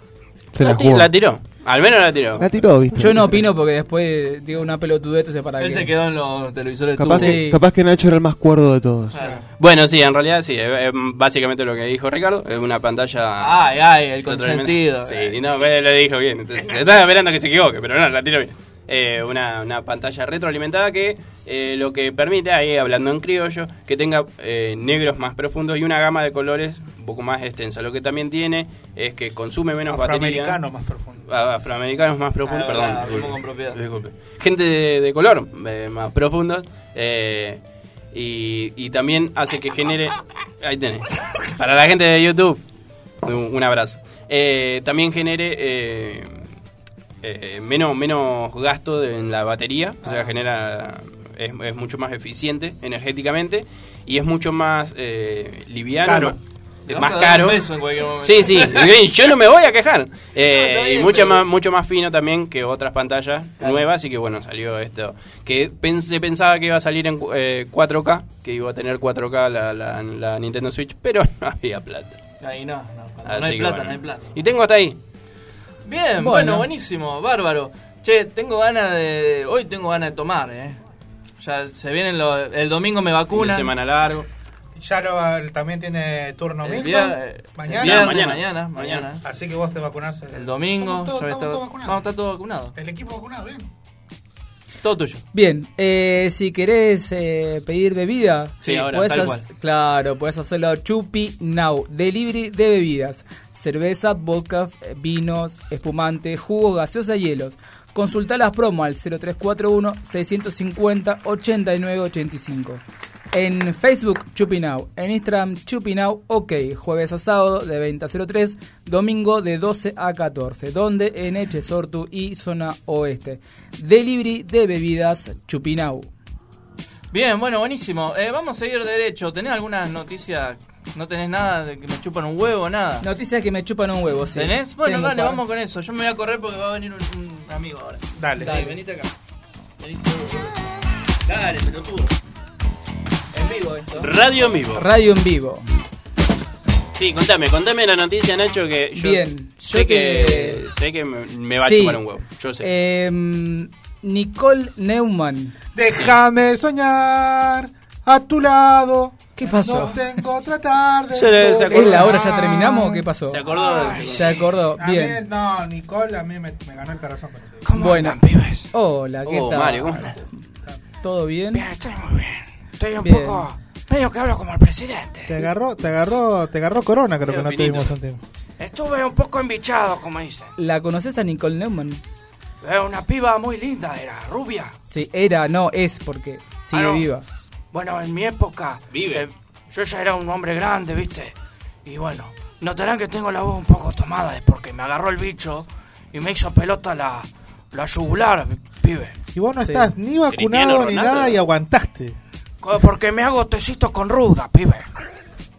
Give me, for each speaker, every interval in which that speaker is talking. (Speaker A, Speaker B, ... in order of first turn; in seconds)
Speaker A: 0.5-1.1, 2.4-3.5, 7.0-9.4
Speaker B: 0.6-2.5, 9.6-13.7, 14.2-30.6, 31.3-42.6, 43.2-46.5, 47.2-56.4, 56.9-72.2, 73.2-75.0, 83.3-84.3, 87.7-89.1, 98.6-99.3, 144.0-144.9, 146.9-152.7, 161.1-162.2, 163.3-164.4, 169.2-170.2, 177.2-177.9, 188.9-189.3, 200.3-201.4
Speaker C: 3.0-5.9, 7.0-7.6, 76.2-76.7, 95.3-112.8, 113.3-126.1, 133.0-135.4, 144.7-145.7, 148.9-150.6, 151.6-155.6, 159.4-160.2, 161.7-163.5, 164.0-165.2, 167.8-170.2, 171.0-171.7, 173.0-173.5, 180.6-182.0, 184.9-187.3
Speaker D: 5.6-7.5, 9.1-9.5, 13.4-15.4, 32.5-33.8, 50.0-50.4, 56.9-59.0, 60.5-61.5, 63.6-63.9, 72.4-74.4, 75.8-80.8, 81.4-83.7, 86.6-89.2, 90.3-92.8, 94.8-95.2, 98.7-99.5, 127.1-133.1, 134.3-139.1, 139.8-140.6, 141.3-142.1, 143.3-144.1, 163.5-164.4, 167.7-168.7, 171.5-175.5, 178.6-180.5, 182.6-184.7, 186.7-187.1, 187.7-199.2, 202.6-204.9
Speaker E: 29.9-31.3, 56.0-56.4, 84.8-88.3, 89.2-92.1, 92.8-93.7, 138.2-138.8, 155.8-163.1, 164.8-167.7, 175.2-178.2, 199.3-202.2